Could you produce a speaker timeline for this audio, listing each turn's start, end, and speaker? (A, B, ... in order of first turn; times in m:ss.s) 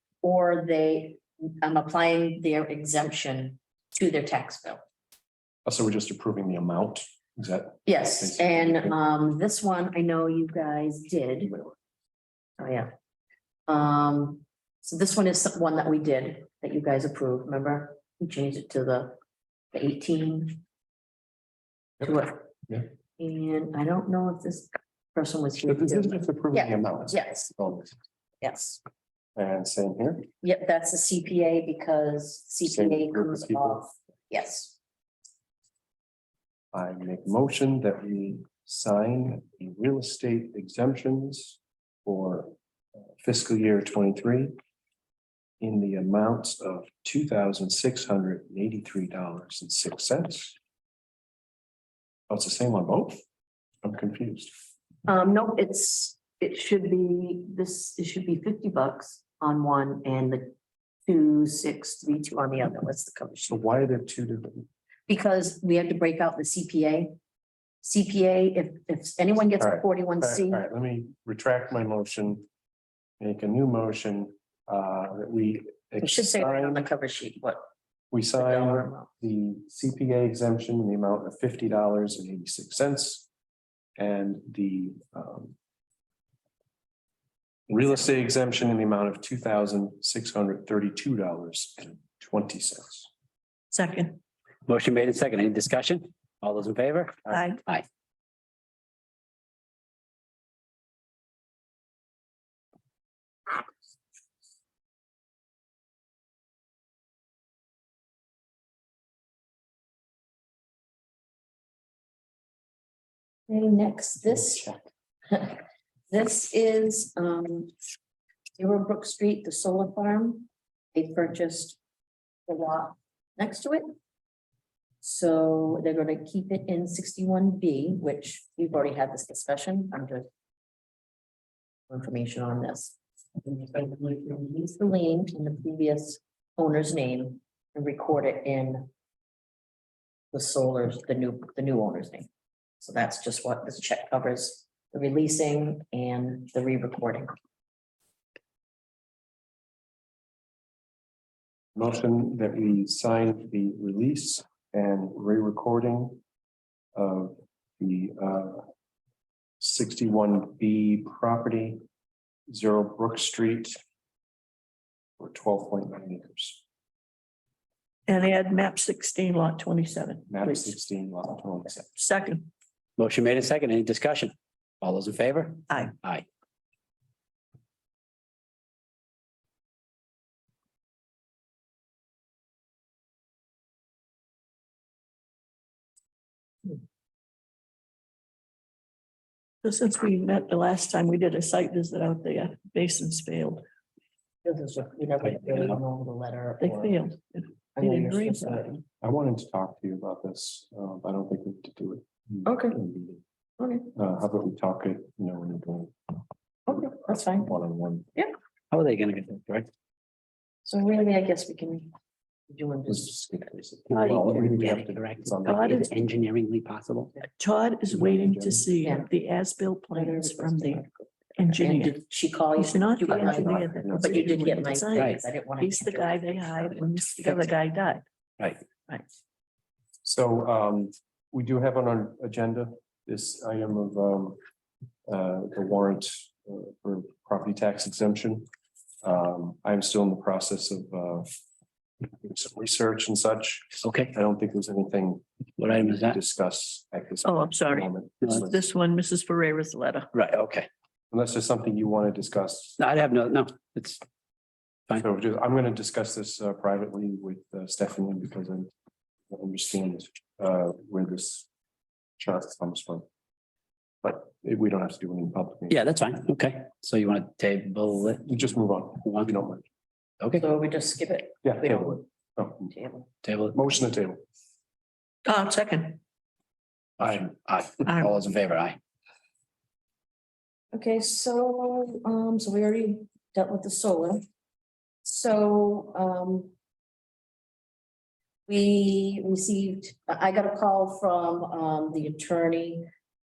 0:00.2-0:04.8 A
0:05.7-0:09.0 B
0:07.9-0:11.5 A
0:11.5-0:11.8 B
0:12.6-0:12.9 A
0:13.7-0:19.2 A
0:19.7-0:20.6 A
0:22.0-0:22.5 A
0:23.2-0:27.5 A
0:25.6-0:28.0 B
0:28.4-0:28.8 A
0:29.4-0:30.3 B
0:30.4-0:34.8 A
0:32.6-0:33.8 B
0:36.7-0:42.5 B
0:43.2-0:44.6 B
0:45.6-0:50.6 B
0:52.3-0:53.2 B
0:53.8-0:54.5 B
0:55.1-1:00.5 A
1:01.1-1:03.7 A
1:03.5-1:04.7 B
1:05.1-1:07.2 A
1:07.8-1:10.6 A
1:09.6-1:12.5 B
1:13.2-1:16.8 B
1:16.0-1:17.7 A
1:18.1-1:23.3 B
1:18.4-1:19.1 A
1:24.0-1:25.6 B
1:27.7-1:33.1 B
1:33.7-1:34.2 C
1:34.7-1:37.8 D
1:37.3-1:37.6 C
1:53.5-1:54.7 A
1:54.3-1:54.8 B
1:55.3-1:57.7 A
1:58.6-2:01.8 A
2:02.5-2:03.9 A
2:05.0-2:10.3 A
2:11.9-2:18.9 A
2:20.3-2:22.3 A
2:22.8-2:27.3 A
2:31.8-2:36.2 B
2:37.0-2:38.6 B
2:39.6-2:41.8 B
2:42.5-2:43.8 B
2:45.2-2:46.6 B
2:48.1-2:50.8 C
2:50.3-2:51.9 B
2:52.0-2:52.5 C
2:53.0-2:56.2 D
2:55.7-2:55.9 C
3:09.6-3:13.6 C
3:14.4-3:17.1 A
3:15.2-3:15.8 D
3:16.6-3:18.7 C
3:17.8-3:18.8 A
3:19.0-3:23.2 B
3:22.4-3:22.8 A
3:23.6-3:23.9 A
3:24.0-3:26.1 B
3:26.7-3:27.5 A
3:26.7-3:28.1 B
3:28.7-3:29.7 D
3:30.6-3:31.9 A
3:32.5-3:33.2 A
3:32.9-3:35.9 B
3:33.9-3:37.1 D
3:34.1-3:34.5 A
3:35.4-3:35.9 C
3:37.3-3:40.8 C
3:37.9-3:38.7 B
3:38.8-3:39.1 A
3:39.9-3:47.3 A
3:41.4-3:42.0 C
3:42.6-3:48.0 C
3:43.1-3:44.3 B
3:50.0-3:54.4 B
3:55.1-3:58.5 B
3:59.0-4:01.3 B
4:02.2-4:08.6 B
4:03.8-4:04.2 D
4:05.6-4:06.2 D
4:07.2-4:10.1 C
4:10.1-4:10.7 D
4:11.1-4:12.8 B
4:12.8-4:14.0 D
4:15.0-4:18.7 B
4:19.3-4:21.5 B
4:22.2-4:23.0 B
4:24.0-4:25.8 B
4:25.7-4:28.3 D
4:28.2-4:29.6 B
4:29.0-4:29.3 D
4:30.4-4:32.0 A
4:31.4-4:32.7 B
4:32.6-4:33.1 A
4:33.2-4:33.6 D
4:33.5-4:34.2 B
4:35.3-4:36.0 C
4:37.0-4:38.8 D
4:37.9-4:38.1 C
4:40.7-4:44.2 A
4:45.0-4:46.5 A
4:48.5-4:52.9 A